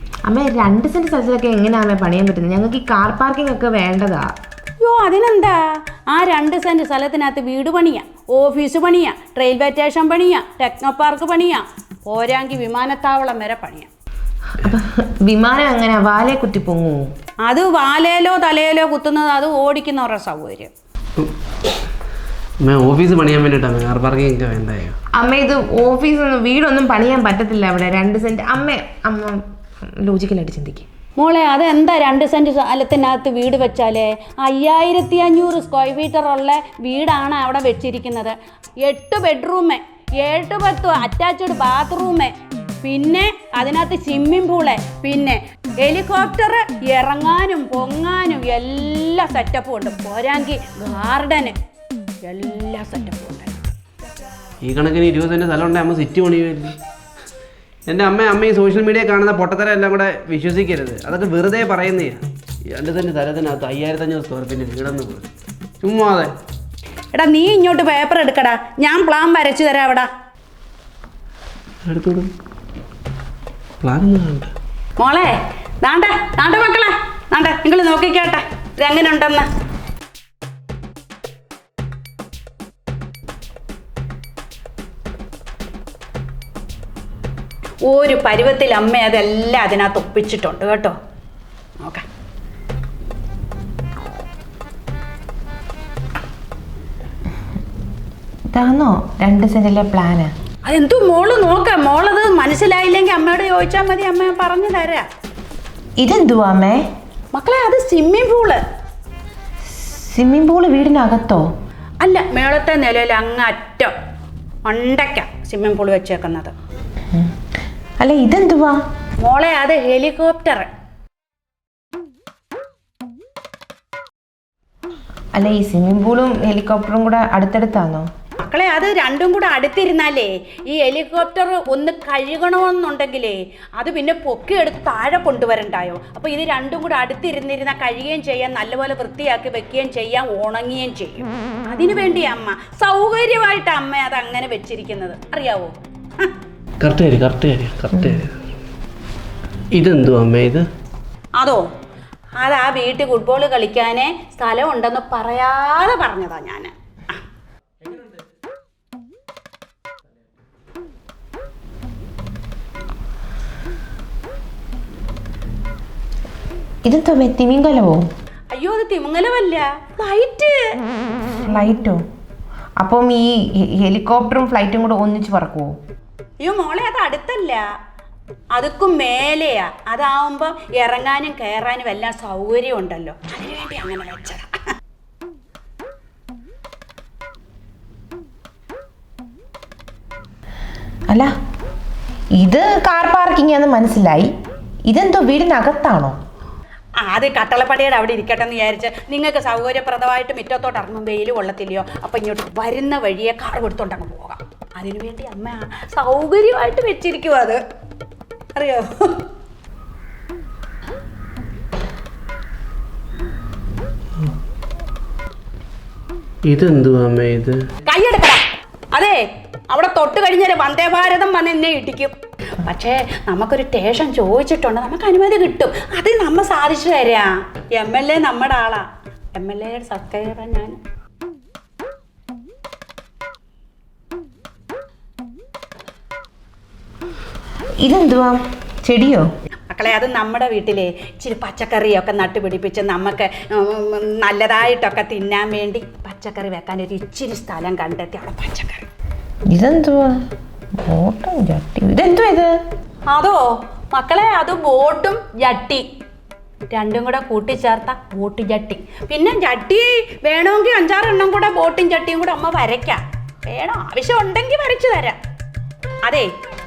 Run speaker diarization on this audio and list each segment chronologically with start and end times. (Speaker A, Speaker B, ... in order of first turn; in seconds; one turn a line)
Speaker A: 0.3-4.3
Speaker B: 4.8-13.9
Speaker A: 14.6-17.1
Speaker B: 17.4-20.7
Speaker C: 22.6-25.0
Speaker A: 25.2-29.4
Speaker A: 30.0-30.9
Speaker B: 31.2-51.6
Speaker B: 52.2-53.6
Speaker C: 54.6-56.8
Speaker C: 57.9-65.3
Speaker C: 65.8-66.3
Speaker B: 67.1-70.1
Speaker C: 71.9-72.3
Speaker C: 73.8-74.5
Speaker B: 75.0-79.5
Speaker B: 87.9-91.0
Speaker A: 98.5-100.3
Speaker B: 100.7-105.1
Speaker A: 106.0-106.8
Speaker B: 107.3-108.6
Speaker A: 109.7-111.5
Speaker B: 112.0-113.9
Speaker B: 114.7-116.5
Speaker A: 118.0-118.8
Speaker B: 119.2-120.7
Speaker A: 125.4-128.1
Speaker B: 128.4-146.3
Speaker C: 146.8-148.4
Speaker C: 149.8-150.7
Speaker B: 152.4-157.2
Speaker A: 166.9-168.1
Speaker B: 168.5-170.7
Speaker A: 171.4-172.0
Speaker A: 172.8-175.8
Speaker B: 176.4-177.6
Speaker B: 178.5-184.6
Speaker A: 192.4-194.3
Speaker A: 194.9-196.2
Speaker B: 197.0-207.6
Speaker B: 208.6-209.2
Speaker C: 216.5-217.6
Speaker B: 217.9-218.4
Speaker B: 218.9-230.8
Speaker A: 237.8-239.3
Speaker B: 239.7-248.9
Speaker A: 249.5-250.3
Speaker A: 250.8-252.6
Speaker B: 253.1-255.9
Speaker B: 256.7-265.2